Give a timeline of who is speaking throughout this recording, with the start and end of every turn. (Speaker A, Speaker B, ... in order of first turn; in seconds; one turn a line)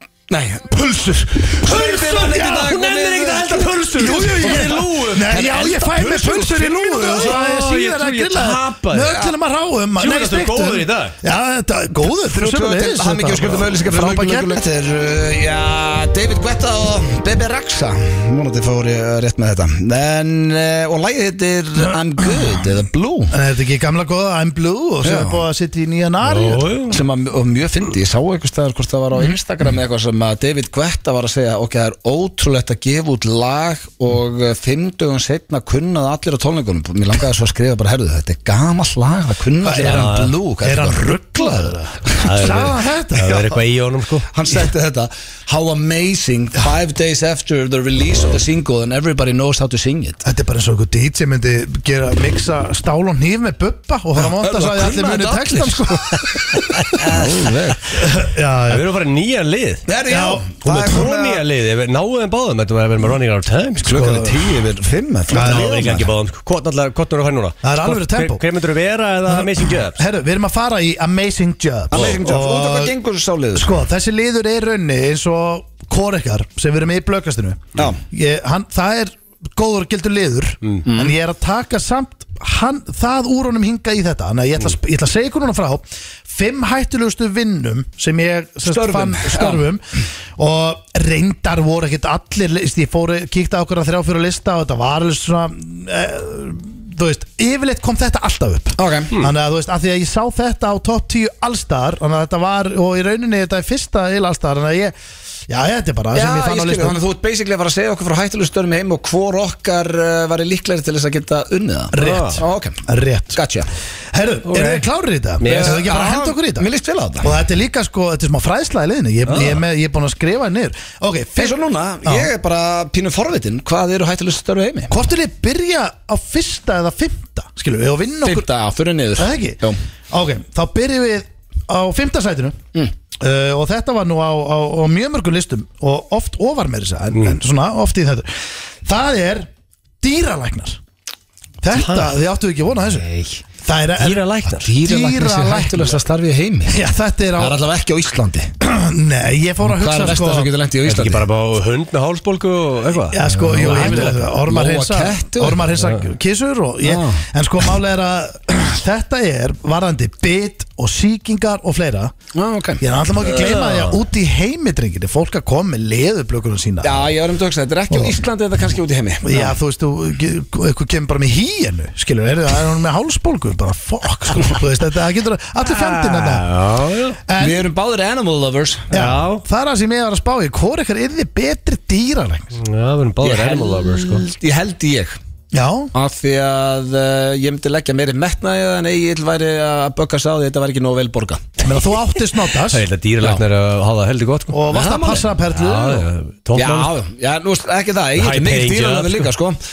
Speaker A: 0.3-4.7
Speaker B: 1.6-5.3
Speaker C: 4.0-14.6
Speaker A: 5.2-6.9
Speaker B: 6.8-9.3
Speaker B: 10.0-11.2
Speaker A: 12.2-23.3
Speaker C: 23.3-26.7
Speaker A: 25.0-25.4
Speaker B: 26.2-27.0
Speaker A: 26.9-42.2
Speaker C: 39.6-43.6
Speaker B: 39.8-40.3
Speaker B: 42.2-44.3
Speaker A: 44.3-50.2
Speaker C: 50.2-56.2
Speaker A: 54.2-56.3
Speaker B: 56.5-57.3
Speaker A: 57.0-57.8
Speaker C: 57.9-58.8
Speaker B: 58.7-59.8
Speaker A: 59.9-61.4
Speaker C: 60.0-60.5
Speaker B: 60.6-63.9
Speaker A: 63.8-66.1
Speaker C: 63.8-64.5
Speaker C: 65.3-65.9
Speaker B: 65.3-70.0
Speaker C: 67.6-68.4
Speaker C: 69.3-72.9
Speaker A: 71.9-73.8
Speaker C: 73.5-89.8
Speaker A: 80.8-81.1
Speaker A: 88.6-89.7
Speaker C: 90.4-104.9
Speaker A: 98.8-99.1
Speaker C: 105.5-107.0
Speaker A: 106.1-112.8
Speaker C: 111.9-113.4
Speaker B: 112.0-112.4
Speaker A: 113.3-113.7
Speaker C: 114.1-116.7
Speaker B: 114.5-114.8
Speaker B: 115.4-115.8
Speaker A: 115.4-117.3
Speaker C: 117.2-122.3
Speaker A: 121.4-124.9
Speaker C: 124.9-128.5
Speaker A: 128.2-129.8
Speaker C: 129.2-132.6
Speaker C: 133.2-138.3
Speaker C: 138.8-139.5
Speaker C: 140.0-140.8
Speaker C: 141.6-143.1
Speaker B: 141.7-142.1
Speaker C: 143.6-145.9
Speaker B: 144.0-144.7
Speaker A: 144.6-146.8
Speaker C: 146.7-147.6
Speaker A: 147.4-148.5
Speaker C: 148.6-150.5
Speaker A: 149.7-151.2
Speaker B: 150.8-154.2
Speaker C: 153.1-162.1
Speaker A: 153.4-155.6
Speaker A: 156.8-157.2
Speaker A: 162.3-162.8
Speaker C: 162.8-167.2
Speaker B: 163.2-164.0
Speaker A: 166.8-169.5
Speaker C: 167.9-168.2
Speaker C: 169.2-176.5
Speaker B: 175.6-177.2
Speaker C: 177.3-177.7
Speaker A: 177.4-178.9
Speaker C: 178.9-182.6
Speaker B: 178.9-179.4
Speaker B: 182.6-184.2
Speaker A: 183.2-185.2
Speaker C: 185.5-185.9
Speaker A: 185.9-191.4
Speaker C: 191.6-192.8
Speaker B: 192.7-194.6
Speaker C: 194.5-196.1
Speaker A: 194.7-195.3
Speaker B: 195.5-196.9
Speaker A: 196.5-199.6
Speaker B: 198.2-199.3